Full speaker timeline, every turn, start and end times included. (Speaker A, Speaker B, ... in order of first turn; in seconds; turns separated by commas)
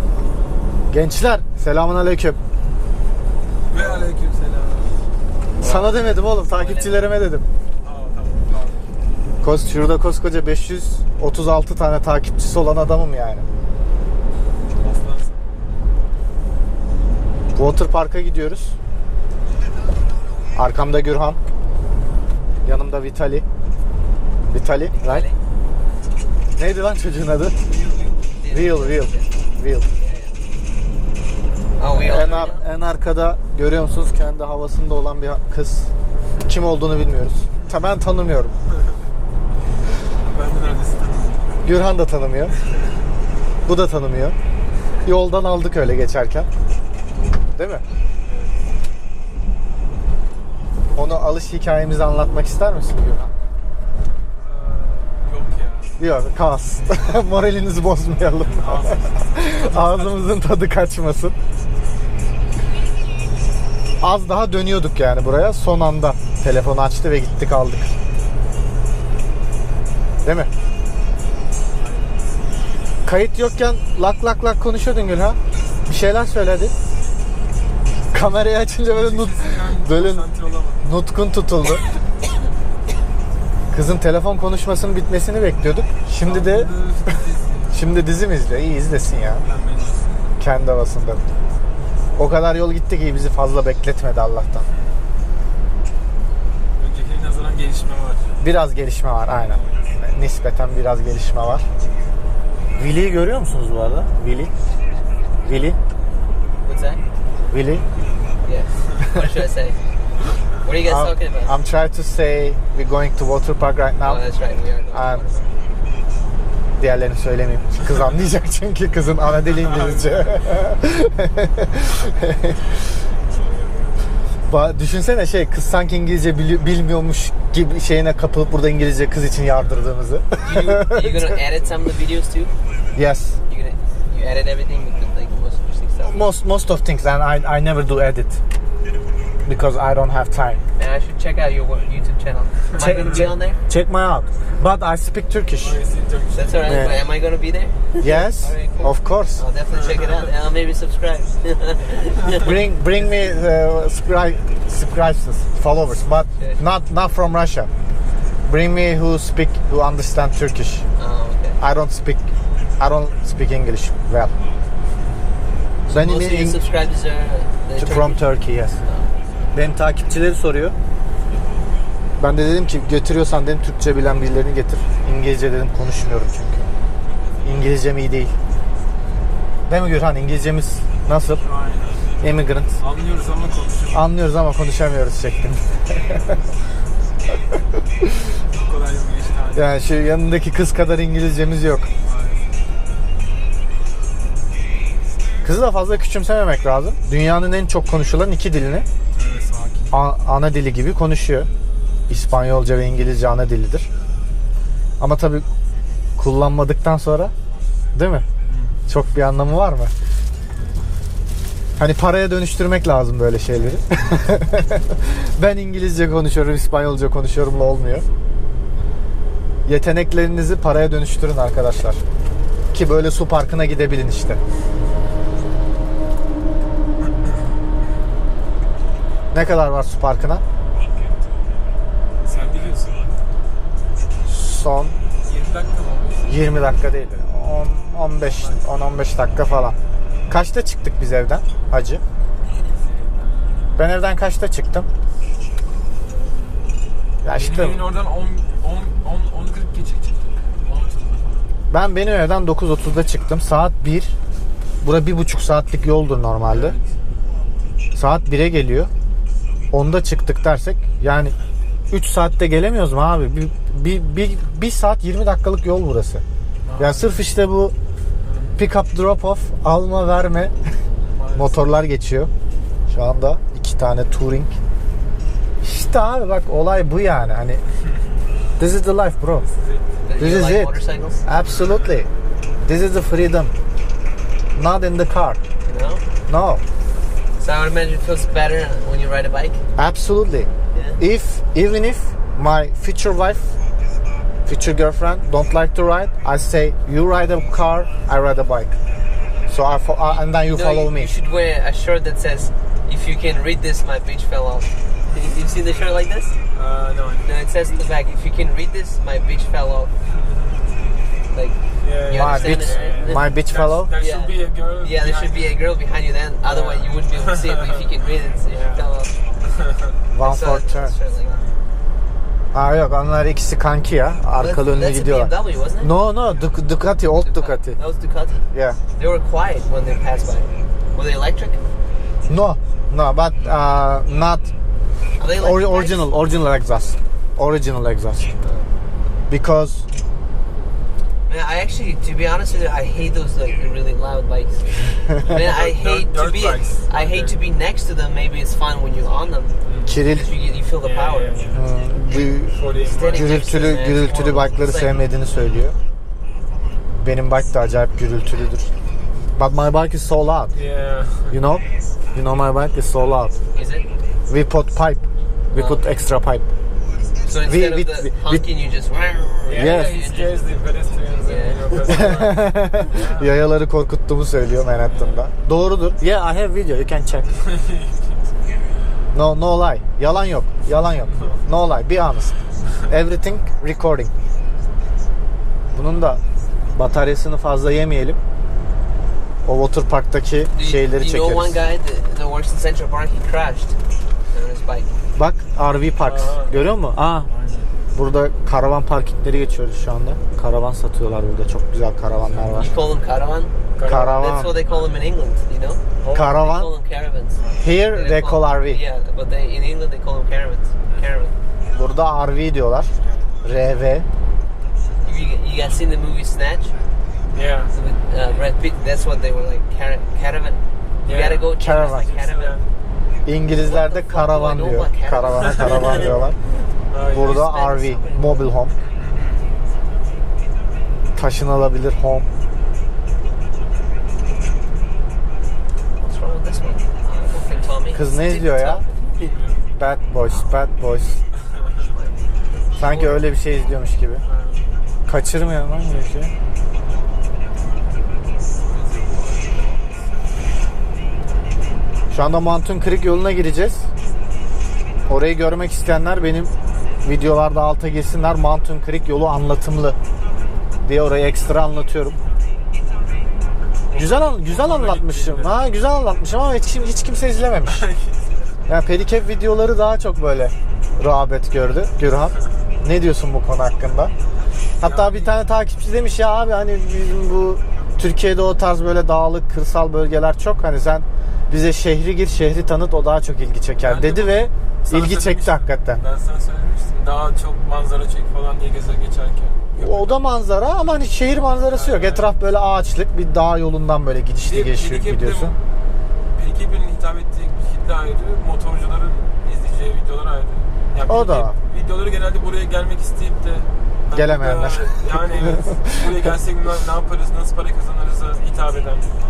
Speaker A: 0.9-2.4, Speaker B: 3.7-5.0, Speaker C: 5.6-7.2, Speaker A: 5.6-7.5, Speaker B: 7.8-8.9, Speaker A: 9.4-13.4, Speaker B: 14.7-15.4, Speaker A: 17.6-18.8, Speaker A: 20.6-21.4, Speaker A: 22.6-23.4, Speaker A: 24.5-25.3, Speaker C: 24.9-25.4, Speaker A: 26.6-27.6, Speaker C: 28.4-29.3, Speaker A: 28.5-29.9, Speaker C: 30.0-30.4, Speaker C: 31.8-32.6, Speaker A: 31.9-35.9, Speaker A: 36.5-38.5, Speaker B: 40.1-41.6, Speaker A: 41.6-42.5, Speaker A: 43.7-44.4, Speaker A: 45.0-46.5, Speaker A: 47.6-47.8, Speaker B: 48.2-48.6, Speaker A: 51.0-53.3, Speaker B: 54.4-56.0, Speaker A: 56.0-61.4, Speaker B: 58.6-60.4, Speaker A: 64.0-67.9, Speaker A: 70.2-70.5, Speaker B: 71.8-72.8, Speaker A: 73.0-76.7, Speaker A: 78.1-80.3, Speaker B: 78.9-80.8, Speaker A: 80.8-81.8, Speaker A: 83.7-87.1, Speaker B: 86.2-87.8, Speaker A: 87.7-89.5, Speaker B: 89.1-90.3, Speaker A: 90.4-91.2, Speaker A: 92.2-94.7, Speaker B: 96.8-98.3, Speaker A: 98.4-101.7, Speaker A: 102.8-104.5, Speaker A: 105.5-105.8, Speaker C: 106.6-107.0, Speaker A: 107.5-107.8, Speaker C: 108.4-109.8, Speaker C: 110.6-111.5, Speaker A: 110.8-114.2, Speaker C: 114.0-115.5, Speaker A: 114.9-115.2, Speaker A: 116.8-122.6, Speaker B: 119.4-120.6, Speaker B: 123.2-124.1, Speaker A: 124.5-131.3, Speaker C: 130.4-132.5, Speaker A: 132.9-133.4, Speaker C: 133.5-136.3, Speaker A: 136.1-138.4, Speaker A: 139.5-140.6, Speaker C: 140.8-143.6, Speaker B: 142.8-143.2, Speaker A: 142.9-145.8, Speaker B: 145.6-146.8, Speaker C: 146.3-152.5, Speaker A: 146.7-146.9, Speaker A: 148.0-149.4, Speaker B: 149.7-150.3, Speaker A: 152.3-157.7, Speaker A: 158.5-160.9, Speaker C: 161.0-161.6, Speaker A: 161.6-162.2, Speaker A: 162.8-164.3, Speaker A: 165.9-166.6, Speaker C: 165.9-169.1, Speaker A: 167.8-168.8, Speaker A: 169.5-170.8, Speaker A: 172.2-176.7, Speaker A: 177.4-178.3, Speaker A: 179.7-181.4, Speaker B: 181.4-182.1, Speaker A: 182.2-182.8, Speaker B: 182.8-184.1, Speaker A: 183.9-186.3, Speaker B: 188.5-189.8, Speaker A: 189.5-191.9, Speaker B: 192.0-192.5, Speaker A: 195.4-198.9, Speaker B: 199.1-200.0, Speaker A: 199.9-201.5, Speaker A: 202.1-203.9, Speaker A: 205.0-205.5, Speaker A: 206.2-207.3, Speaker A: 207.9-208.3, Speaker B: 208.5-208.8, Speaker A: 208.9-209.9, Speaker B: 210.5-210.8, Speaker A: 211.8-218.1, Speaker A: 219.7-222.0, Speaker A: 222.7-224.4, Speaker A: 229.3-230.4, Speaker B: 232.2-233.1, Speaker A: 234.3-235.0, Speaker B: 235.2-236.7, Speaker A: 236.3-239.8, Speaker B: 238.2-238.7, Speaker A: 240.3-242.0, Speaker B: 242.6-243.9, Speaker A: 243.8-244.9, Speaker B: 246.1-246.7, Speaker A: 247.2-247.8, Speaker B: 247.3-251.5, Speaker A: 251.7-254.2, Speaker A: 254.8-256.8, Speaker B: 256.5-256.9, Speaker A: 257.9-258.9, Speaker A: 259.7-261.4, Speaker A: 261.9-266.2, Speaker B: 266.6-267.3, Speaker A: 266.8-267.7, Speaker B: 268.2-268.6, Speaker A: 268.6-270.5, Speaker B: 271.1-271.7, Speaker A: 271.4-272.3, Speaker A: 272.9-274.6, Speaker A: 275.6-277.6, Speaker A: 278.6-279.4, Speaker B: 279.4-280.1, Speaker C: 280.0-281.2, Speaker A: 280.2-282.1, Speaker B: 281.5-282.0, Speaker A: 282.6-283.5, Speaker A: 284.6-285.4, Speaker C: 285.6-286.0, Speaker A: 286.3-286.6, Speaker C: 287.4-289.6, Speaker A: 289.8-293.6, Speaker C: 290.7-291.0, Speaker A: 294.5-298.7, Speaker A: 299.5-301.1, Speaker C: 300.1-306.4, Speaker B: 306.5-307.3, Speaker C: 307.2-309.9, Speaker B: 310.1-310.8, Speaker C: 311.3-313.3, Speaker B: 311.8-315.6, Speaker A: 312.1-313.9, Speaker C: 314.0-319.1, Speaker B: 316.4-317.8, Speaker B: 318.5-318.9, Speaker B: 319.6-319.9, Speaker A: 320.1-320.9, Speaker C: 320.2-321.4, Speaker B: 321.2-321.6, Speaker A: 322.5-327.8, Speaker C: 324.4-325.9, Speaker C: 327.2-328.4, Speaker A: 328.5-328.8, Speaker C: 329.0-331.6, Speaker A: 332.3-334.5, Speaker C: 335.2-336.1, Speaker A: 335.4-338.3, Speaker C: 338.4-338.7, Speaker A: 339.3-339.9, Speaker C: 341.3-349.5, Speaker B: 345.2-347.4, Speaker B: 349.6-350.0, Speaker A: 349.9-350.3, Speaker C: 350.1-351.4, Speaker B: 350.8-351.7, Speaker A: 351.5-355.8, Speaker B: 352.5-353.5, Speaker C: 352.8-355.1, Speaker A: 357.0-358.7, Speaker A: 359.4-360.5, Speaker B: 360.5-361.4, Speaker A: 361.3-363.4, Speaker C: 363.5-363.9, Speaker A: 364.3-366.5, Speaker C: 365.5-365.9, Speaker C: 367.2-370.4, Speaker A: 367.5-368.4, Speaker B: 369.5-373.4, Speaker A: 369.5-370.0, Speaker C: 371.2-371.8, Speaker A: 371.9-377.4, Speaker B: 374.9-375.3, Speaker B: 377.3-378.3, Speaker A: 379.1-382.4, Speaker B: 380.9-381.4, Speaker A: 382.9-384.1, Speaker A: 385.7-386.2, Speaker A: 386.8-388.2, Speaker A: 389.4-391.6, Speaker C: 390.6-393.8, Speaker C: 394.3-394.9, Speaker A: 395.2-397.3, Speaker B: 396.0-396.6, Speaker B: 397.3-397.7, Speaker A: 397.9-402.7, Speaker B: 402.2-402.8, Speaker C: 402.5-407.4, Speaker B: 403.8-405.0, Speaker A: 403.8-404.5, Speaker B: 406.0-406.4, Speaker A: 406.1-406.7, Speaker B: 407.4-407.7, Speaker A: 407.6-408.8, Speaker C: 407.9-411.3, Speaker A: 411.8-412.9, Speaker B: 413.0-413.3, Speaker A: 413.4-414.1, Speaker C: 415.0-416.8, Speaker B: 417.3-417.7, Speaker C: 417.7-422.6, Speaker B: 421.0-422.7, Speaker A: 421.6-422.1, Speaker A: 423.2-426.4, Speaker C: 423.5-426.3, Speaker B: 426.9-427.4, Speaker A: 427.1-428.7, Speaker C: 427.2-428.5, Speaker B: 428.9-429.4, Speaker A: 431.1-432.3, Speaker C: 436.0-439.0, Speaker A: 437.9-438.8, Speaker B: 439.0-439.7, Speaker A: 439.8-441.2, Speaker C: 440.3-440.6, Speaker C: 441.8-442.2, Speaker A: 442.8-444.2, Speaker B: 442.8-443.3, Speaker B: 444.2-444.7, Speaker A: 445.1-446.3, Speaker B: 448.6-450.1, Speaker A: 452.1-453.9, Speaker A: 455.1-456.5, Speaker A: 457.0-460.0, Speaker A: 460.9-462.2, Speaker B: 463.9-465.6, Speaker A: 463.9-467.9, Speaker B: 467.6-468.4, Speaker A: 468.7-474.1, Speaker B: 474.8-475.4, Speaker A: 474.8-486.0, Speaker B: 483.8-490.2, Speaker A: 489.7-495.5, Speaker B: 491.7-492.3, Speaker B: 494.4-495.6, Speaker B: 496.3-509.1, Speaker A: 501.1-501.6, Speaker A: 504.1-506.1